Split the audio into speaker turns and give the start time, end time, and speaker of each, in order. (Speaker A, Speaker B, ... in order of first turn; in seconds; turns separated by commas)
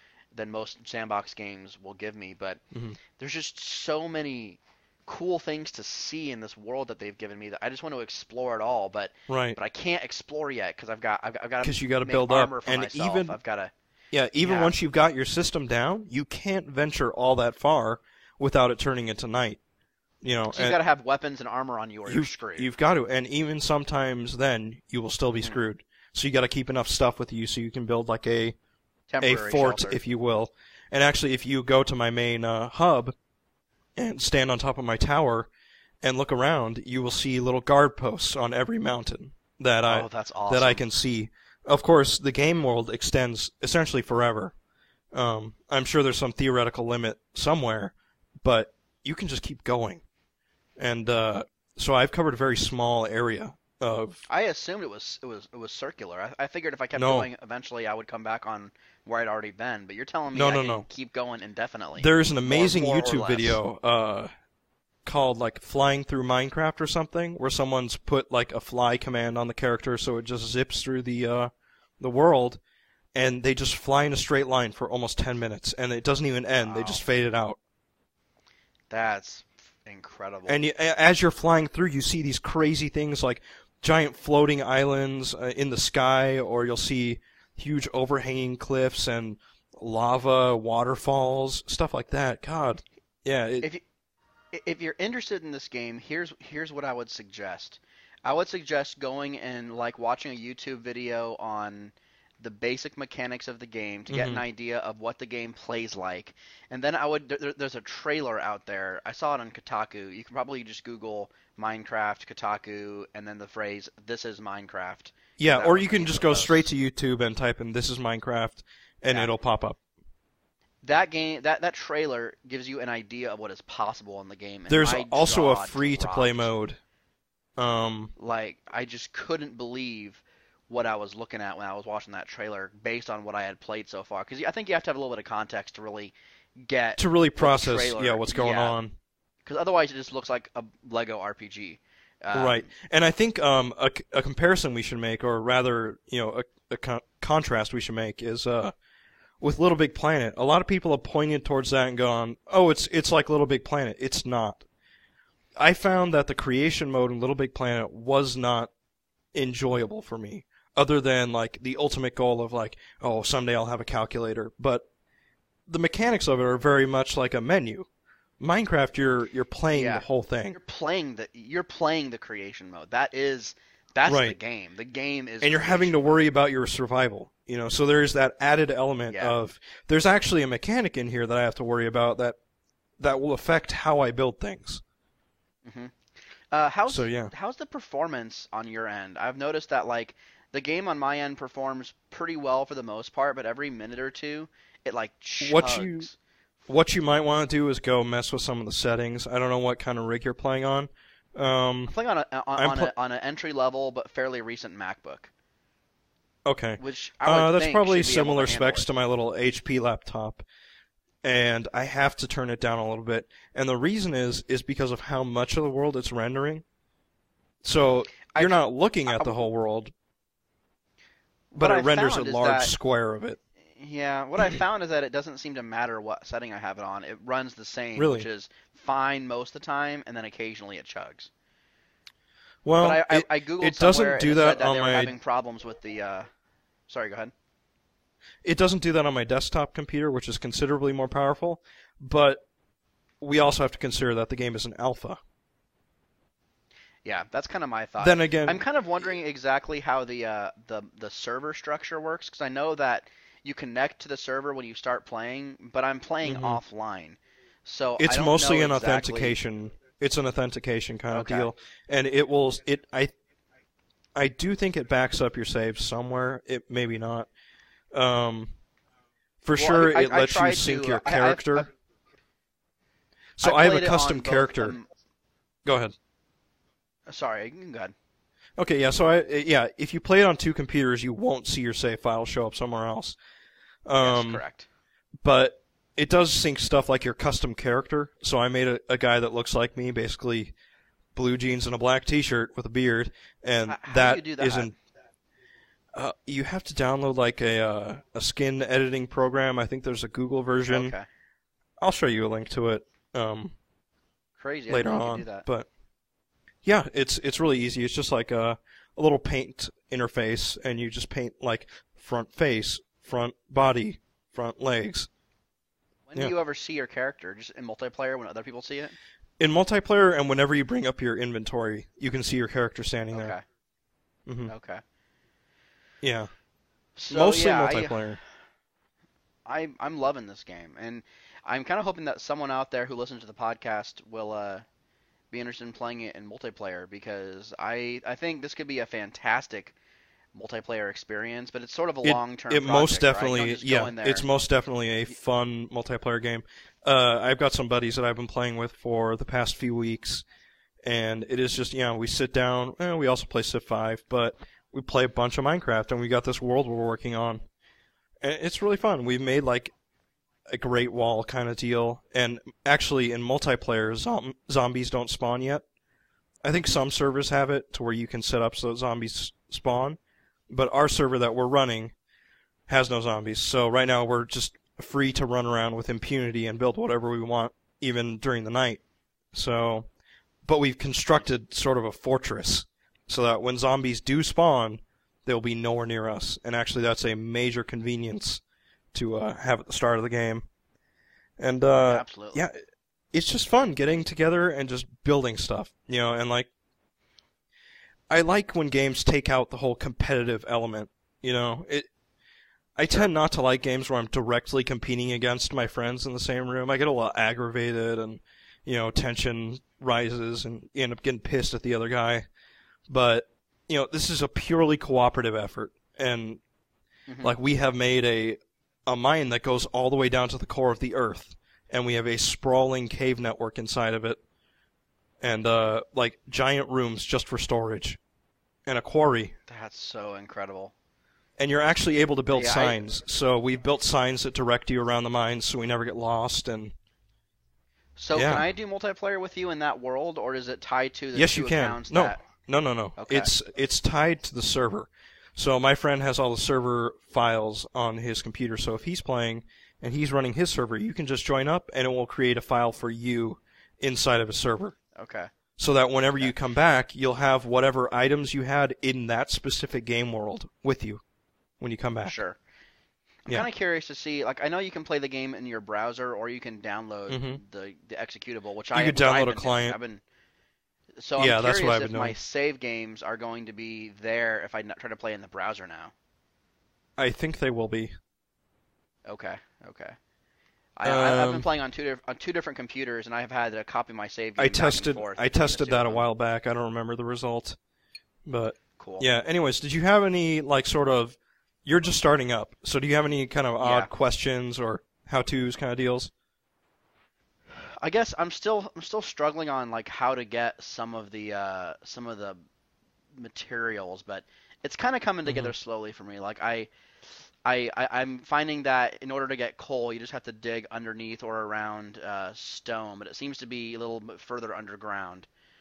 Speaker A: 0.3-2.6, Speaker B: 2.7-3.0, Speaker A: 3.2-13.7, Speaker B: 9.3-9.6, Speaker B: 11.6-13.4, Speaker B: 14.1-19.6, Speaker A: 14.4-14.7, Speaker B: 20.2-20.8, Speaker A: 20.5-22.7, Speaker B: 22.1-28.6, Speaker A: 29.1-30.0, Speaker B: 29.2-33.1, Speaker B: 34.0-35.5, Speaker B: 36.0-44.5, Speaker A: 39.9-40.9, Speaker B: 45.1-50.0, Speaker B: 50.8-54.2, Speaker A: 54.3-63.6, Speaker B: 57.0-57.3, Speaker B: 60.3-60.9, Speaker B: 62.0-64.3, Speaker B: 65.0-72.6, Speaker B: 73.2-77.6, Speaker A: 76.6-77.0, Speaker A: 78.9-80.6, Speaker B: 80.5-93.7, Speaker A: 94.5-116.7, Speaker B: 104.1-104.4, Speaker B: 115.4-119.8, Speaker A: 120.8-126.5, Speaker B: 124.7-126.8, Speaker B: 127.6-128.1, Speaker A: 128.2-138.8, Speaker B: 137.0-139.0, Speaker A: 139.5-142.7, Speaker B: 142.3-148.8, Speaker B: 149.4-154.7, Speaker B: 155.6-158.7, Speaker B: 159.3-164.9, Speaker B: 165.7-167.9, Speaker B: 168.4-170.6, Speaker A: 169.7-175.9, Speaker B: 174.1-174.4, Speaker B: 175.4-182.4, Speaker A: 179.1-179.4, Speaker B: 183.0-184.8, Speaker A: 185.7-185.9, Speaker A: 186.5-196.2, Speaker B: 186.9-187.3, Speaker B: 195.4-196.1, Speaker B: 196.7-201.9, Speaker A: 201.9-205.3, Speaker B: 202.6-202.9, Speaker B: 206.4-210.4, Speaker A: 206.8-208.9, Speaker B: 211.2-216.6, Speaker B: 217.6-219.9, Speaker A: 218.3-219.4, Speaker A: 221.5-222.7, Speaker B: 221.5-223.4, Speaker A: 223.8-231.3, Speaker B: 228.0-228.3, Speaker B: 232.7-235.1, Speaker A: 232.8-236.3, Speaker A: 236.9-237.3, Speaker B: 238.4-242.4, Speaker B: 243.2-245.2, Speaker A: 247.1-259.4, Speaker B: 248.0-248.6, Speaker B: 256.2-256.6, Speaker B: 258.0-263.1, Speaker A: 261.1-261.5, Speaker B: 264.1-267.3, Speaker B: 267.9-268.5, Speaker B: 269.4-271.7, Speaker A: 269.6-271.7, Speaker B: 273.4-274.8, Speaker A: 273.4-274.9, Speaker B: 275.6-275.9, Speaker A: 277.1-277.9, Speaker B: 278.6-283.2, Speaker B: 283.9-284.4, Speaker A: 284.0-284.7, Speaker B: 285.2-290.5, Speaker B: 291.1-294.7, Speaker A: 293.7-294.8, Speaker B: 295.9-300.9, Speaker A: 300.7-301.1, Speaker B: 301.8-303.6, Speaker A: 304.4-305.4, Speaker B: 304.7-305.7, Speaker B: 306.6-315.1, Speaker A: 316.1-319.0, Speaker B: 319.4-323.4, Speaker A: 323.1-323.4, Speaker B: 324.3-324.5, Speaker A: 324.5-324.8, Speaker B: 326.0-326.3, Speaker A: 327.0-328.0, Speaker B: 327.1-328.2, Speaker A: 329.5-334.6, Speaker A: 335.3-339.8, Speaker A: 340.4-344.2, Speaker B: 342.0-350.2, Speaker B: 350.8-357.4, Speaker B: 358.2-359.7, Speaker B: 360.5-365.6, Speaker B: 366.4-370.0, Speaker B: 370.5-371.9, Speaker B: 372.7-378.8, Speaker B: 379.3-379.9, Speaker B: 380.4-388.4, Speaker B: 388.9-390.5, Speaker B: 391.4-392.6, Speaker A: 391.9-392.4, Speaker B: 393.1-396.5, Speaker B: 398.1-401.9, Speaker B: 402.8-412.2, Speaker B: 412.9-416.4, Speaker A: 417.1-417.3, Speaker B: 417.2-424.2, Speaker B: 425.2-428.0, Speaker B: 428.7-429.3, Speaker A: 429.5-430.7, Speaker B: 431.4-436.8, Speaker A: 432.3-432.8, Speaker A: 438.0-442.2, Speaker B: 438.1-438.5, Speaker B: 441.1-454.8, Speaker A: 443.0-443.3, Speaker A: 454.9-455.3, Speaker B: 455.6-461.0, Speaker B: 461.6-462.1, Speaker A: 462.0-462.4, Speaker A: 463.3-470.0, Speaker B: 467.1-467.4, Speaker B: 468.7-469.8, Speaker A: 471.0-475.9, Speaker B: 471.2-472.2, Speaker B: 477.0-478.0, Speaker A: 479.1-480.0, Speaker A: 480.8-486.1, Speaker B: 480.8-481.5, Speaker B: 484.4-487.6, Speaker B: 488.3-496.1, Speaker A: 488.8-489.1, Speaker A: 493.6-493.9, Speaker A: 497.6-502.4, Speaker A: 503.2-506.7, Speaker B: 505.3-505.5, Speaker A: 507.4-515.3